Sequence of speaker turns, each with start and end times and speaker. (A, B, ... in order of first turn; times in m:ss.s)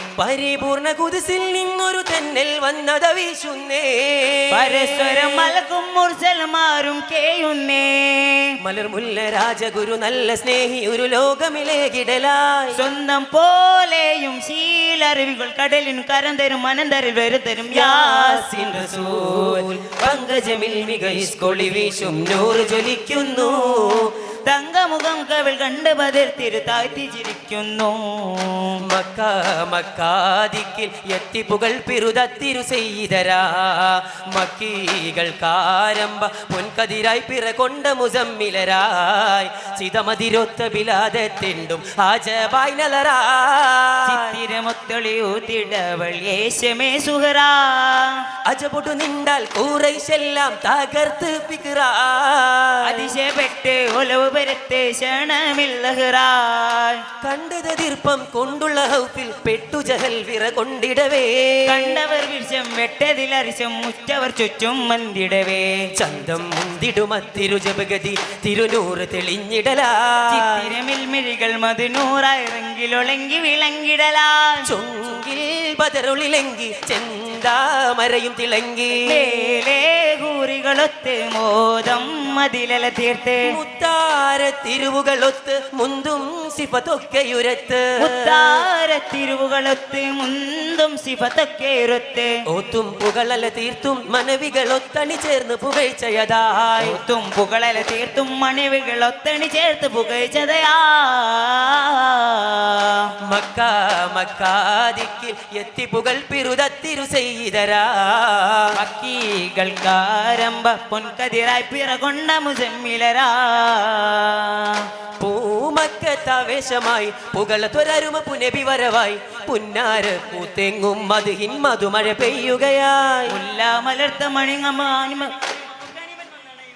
0:00.2-0:05.5 A
0:04.5-0:08.5 B
0:08.6-0:12.8 A
0:12.7-0:18.5 B
0:17.7-0:24.1 A
0:24.4-0:28.8 B
0:28.8-0:44.4 A
0:44.0-0:48.2 B
0:48.5-0:53.1 A
0:52.8-0:57.0 B
0:57.2-1:02.0 A
1:01.7-1:05.9 B
1:06.0-1:10.6 A
1:10.3-1:14.7 B
1:14.6-1:19.2 A
1:19.1-1:23.6 B
1:23.5-1:28.6 A
1:28.0-1:32.3 B
1:32.5-1:37.0 A
1:36.8-1:43.1 B
1:43.2-1:48.7 A
1:48.8-1:54.9 B
1:55.2-2:03.4 A
2:03.3-2:05.3 B